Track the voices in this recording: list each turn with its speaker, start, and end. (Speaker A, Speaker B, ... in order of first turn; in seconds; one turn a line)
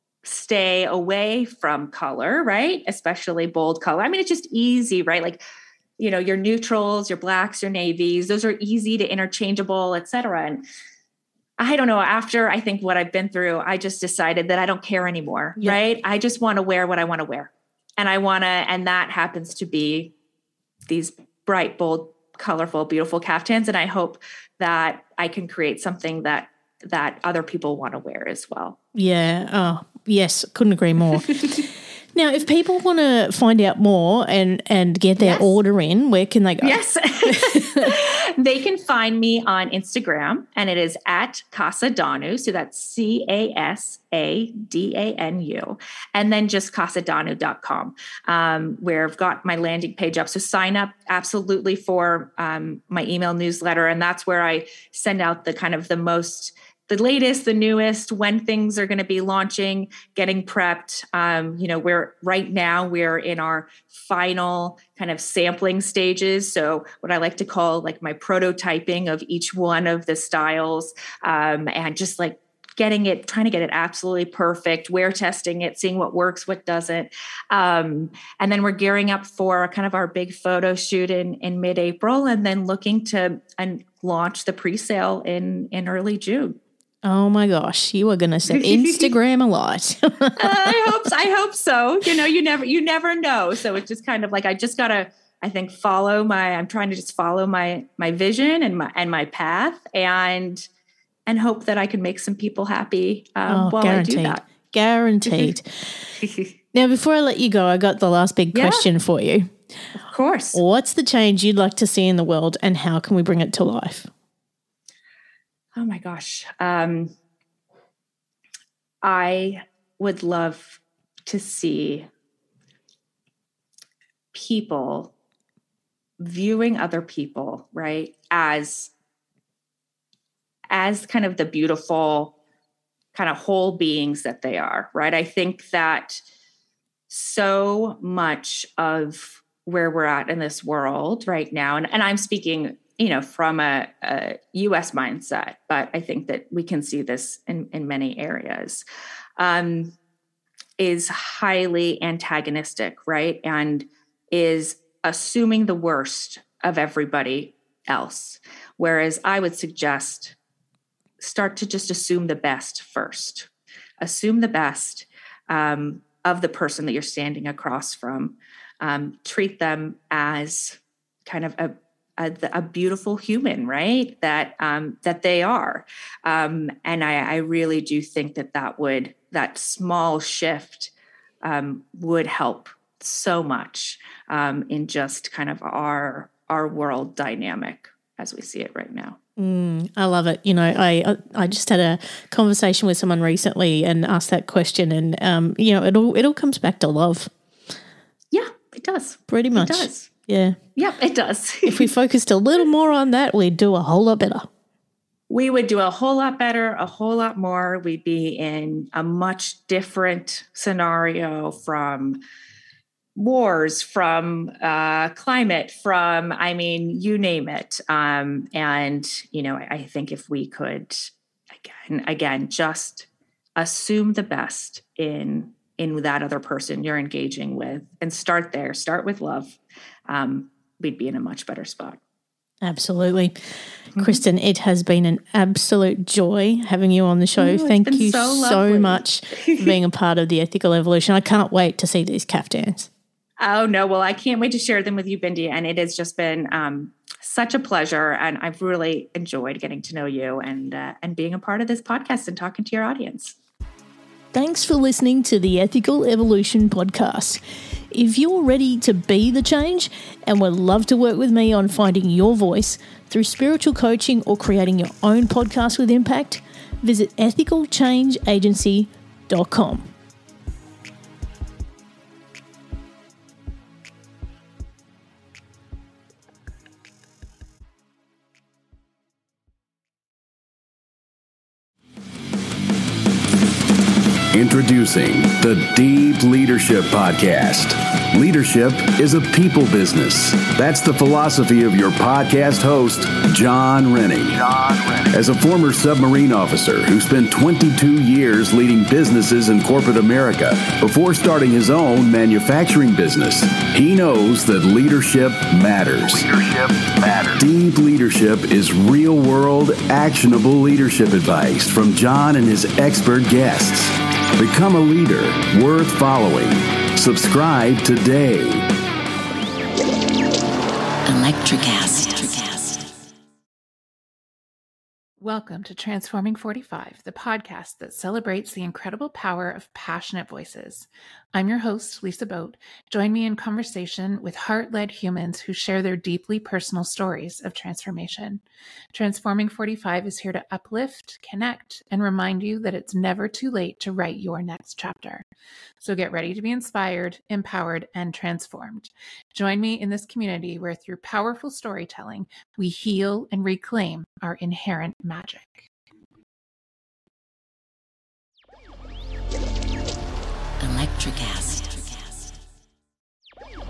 Speaker A: 0.2-5.4
Speaker A: 6.0-10.6
Speaker A: 11.6-20.1
Speaker A: 20.9-28.8
Speaker B: 28.9-37.9
Speaker A: 35.2-35.6
Speaker A: 36.6-86.6
Speaker B: 87.0-90.9
Speaker A: 88.5-89.1
Speaker A: 90.4-100.7
Speaker A: 101.3-104.4
Speaker B: 103.5-106.1
Speaker A: 105.3-105.5
Speaker A: 106.2-106.5
Speaker B: 106.7-109.5
Speaker A: 108.5-108.9
Speaker A: 110.0-110.6
Speaker B: 110.5-114.1
Speaker A: 115.8-117.1
Speaker A: 119.0-122.1
Speaker A: 124.3-125.1
Speaker A: 126.2-128.9
Speaker A: 130.7-132.3
Speaker A: 133.1-136.2
Speaker A: 137.1-148.8
Speaker A: 149.4-149.9
Speaker A: 150.8-160.4
Speaker A: 161.2-163.5
Speaker A: 164.0-180.9
Speaker A: 181.4-189.2
Speaker B: 189.4-197.3
Speaker A: 198.3-200.1
Speaker B: 199.3-200.6
Speaker A: 200.8-201.9
Speaker B: 201.7-204.5
Speaker A: 205.3-212.2
Speaker A: 213.2-232.0
Speaker B: 232.6-233.3
Speaker A: 234.0-234.2
Speaker B: 234.0-242.9
Speaker A: 237.4-239.8
Speaker A: 243.4-253.4
Speaker B: 254.3-257.4
Speaker B: 257.9-269.9
Speaker C: 284.3-318.7
Speaker D: 321.1-322.9
Speaker E: 325.2-345.2
Speaker E: 345.8-355.7
Speaker D: 360.6-362.1